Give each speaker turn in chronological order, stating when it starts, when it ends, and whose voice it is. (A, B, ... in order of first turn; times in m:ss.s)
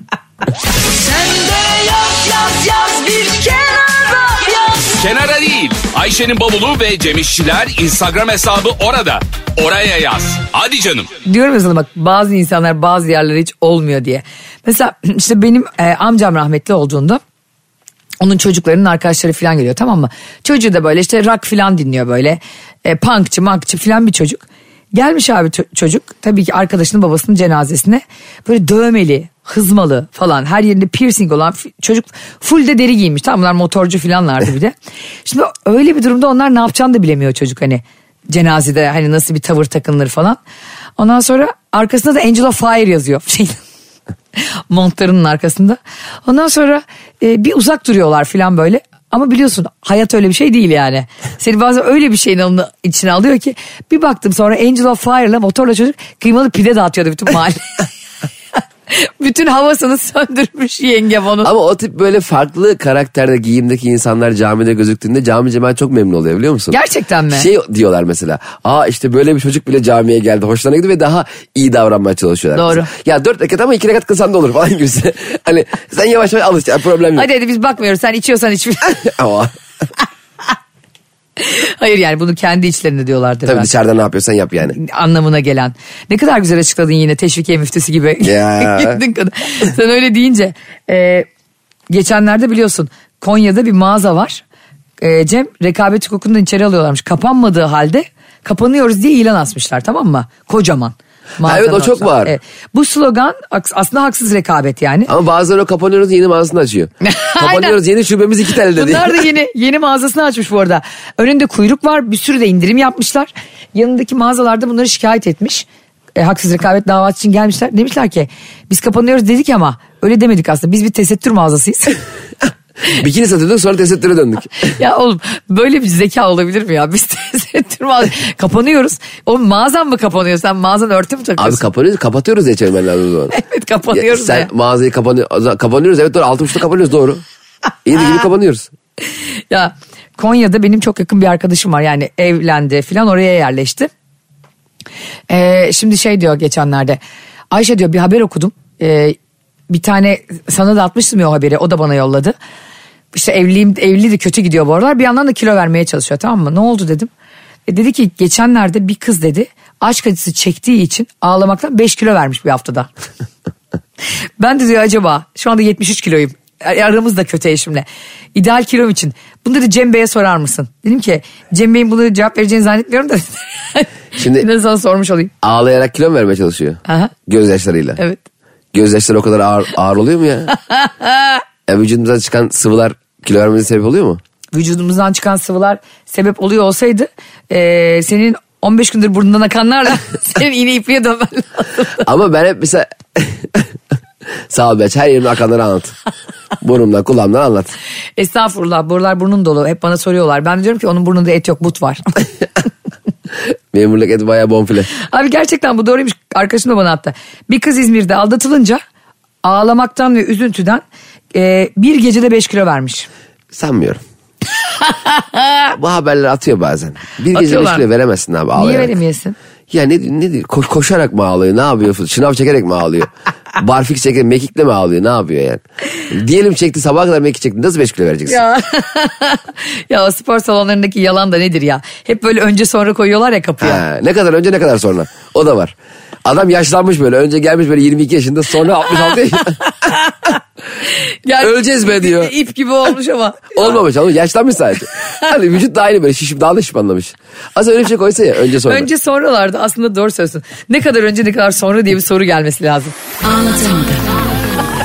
0:00.8-0:11.1 A
0:11.2-0:17.2 B
0:18.2-0:24.4 B
0:24.9-0:40.4 B
0:41.0-0:43.6 B
0:44.4-0:57.9 B
0:58.9-1:01.5 B
1:01.4-1:06.8 C
1:06.7-1:07.5 B
1:07.3-1:17.3 C
1:12.5-1:12.9 B
1:17.2-1:19.0 B
1:18.9-1:19.5 C
1:21.4-1:23.7 B
1:23.4-1:24.8 C
1:24.7-1:31.3 B
1:28.2-1:29.0 C
1:31.9-1:34.4 B
1:35.0-1:45.1 B
1:41.4-1:42.4 C
1:45.1-1:49.2 C
1:47.0-1:47.8 B
1:48.7-2:02.0 B
2:02.9-2:04.8 C
2:04.7-2:11.6 B
2:11.4-2:13.3 C
2:13.3-2:14.5 B
2:13.9-2:17.2 C
2:17.8-2:18.7 C
2:19.5-2:23.9 B
2:25.3-2:27.0 B
2:27.5-2:29.2 B
2:29.7-2:32.4 B
2:33.1-2:37.1 B
2:37.7-2:42.9 B
2:44.4-2:55.3 B
2:54.2-2:54.4 C
2:55.4-2:58.0 C
2:56.9-2:57.1 B
2:58.7-3:00.5 C
3:00.7-3:01.4 B
3:01.7-3:04.2 C
3:04.5-3:12.0 B
3:12.0-3:13.7 C
3:14.5-3:15.9 C
3:16.6-3:17.7 C
3:18.2-3:22.0 B
3:23.7-3:24.9 C
3:25.0-3:28.8 B
3:29.4-3:33.1 B
3:33.5-3:34.0 C
3:34.9-3:35.2 B
3:35.7-3:39.0 C
3:37.3-3:37.8 B
3:38.6-3:39.4 B
3:39.7-3:48.4 C
3:48.3-3:53.8 B
3:53.6-3:59.6 C
3:59.7-4:00.3 B
4:01.0-4:03.7 B
4:01.4-4:02.3 C
4:03.5-4:08.9 C
4:08.6-4:14.0 B